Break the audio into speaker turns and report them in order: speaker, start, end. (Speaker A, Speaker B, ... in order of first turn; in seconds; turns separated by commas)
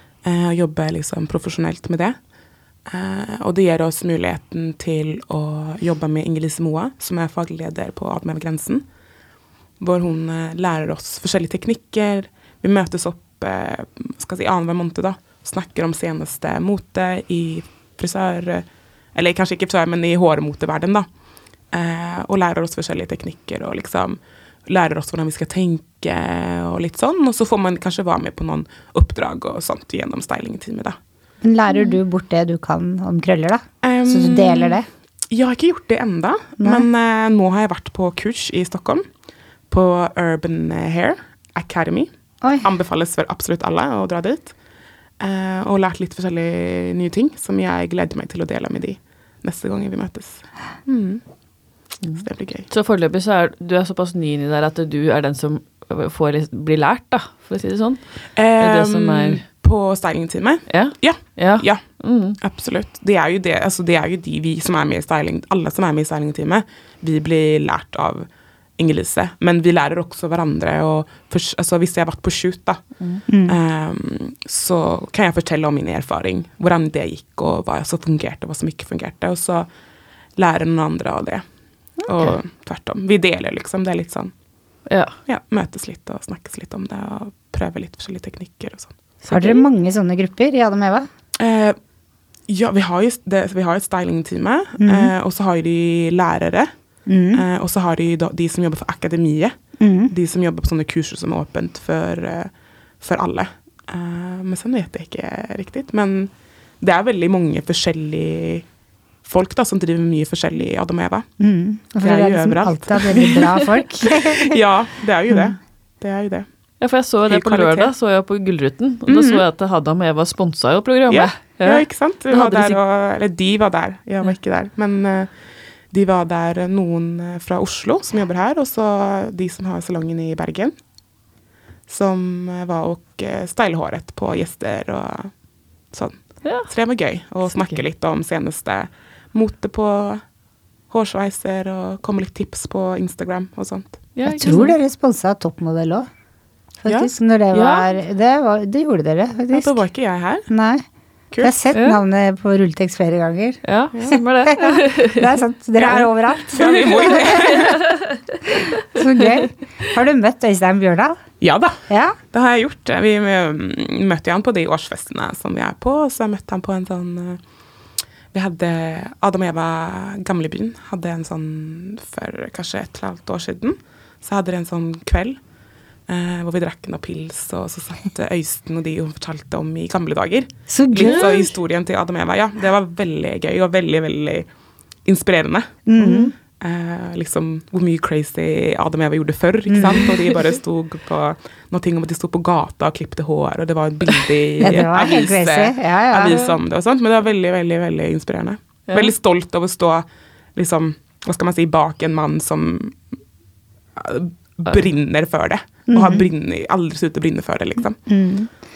Speaker A: 0.2-2.1, Speaker A: 2.9-8.8, Speaker A: 9.8-21.1, Speaker A: 21.7-31.0, Speaker B: 31.4-34.9, Speaker A: 33.8-39.0, Speaker B: 36.6-36.9, Speaker A: 39.7-42.1, Speaker A: 42.6-44.5, Speaker A: 45.2-51.2, Speaker C: 52.0-58.0, Speaker A: 52.1-52.7, Speaker A: 58.4-61.8, Speaker C: 58.6-59.4, Speaker C: 60.7-62.4, Speaker A: 62.4-72.8, Speaker B: 73.3-73.5, Speaker A: 73.5-79.7, Speaker A: 80.4-81.4, Speaker A: 82.0-84.3, Speaker C: 84.9-85.1, Speaker A: 85.3-88.9, Speaker C: 89.2-89.6, Speaker B: 89.3-91.1, Speaker A: 91.4-91.8, Speaker A: 92.5-96.7, Speaker B: 94.8-95.1, Speaker B: 97.1-97.4, Speaker A: 97.3-99.5, Speaker B: 99.8-100.1, Speaker A: 100.1-108.6, Speaker A: 109.2-111.2, Speaker B: 111.4-114.6, Speaker A: 112.0-113.4, Speaker A: 114.0-116.5, Speaker C: 116.8-122.8, Speaker A: 117.3-117.9, Speaker A: 119.0-119.4, Speaker A: 121.1-125.3, Speaker A: 125.9-130.7, Speaker A: 131.9-135.3, Speaker A: 135.9-140.2, Speaker A: 140.9-144.0, Speaker C: 144.2-144.8, Speaker B: 144.2-146.1, Speaker B: 146.8-149.8, Speaker C: 147.5-147.8, Speaker A: 149.5-150.5, Speaker B: 150.5-150.8, Speaker B: 151.4-157.6, Speaker C: 151.7-152.0, Speaker C: 153.6-155.3, Speaker A: 155.8-157.8, Speaker C: 157.4-158.1, Speaker B: 158.6-161.2, Speaker A: 161.4-161.8, Speaker B: 161.9-162.2, Speaker A: 162.3-167.4, Speaker A: 168.3-175.4, Speaker A: 176.1-184.4, Speaker B: 180.7-181.5, Speaker A: 185.0-203.0, Speaker B: 185.9-186.3, Speaker B: 189.7-190.0, Speaker B: 194.6-196.4, Speaker C: 198.9-199.1, Speaker A: 203.9-208.0, Speaker B: 205.9-206.2, Speaker B: 208.1-208.5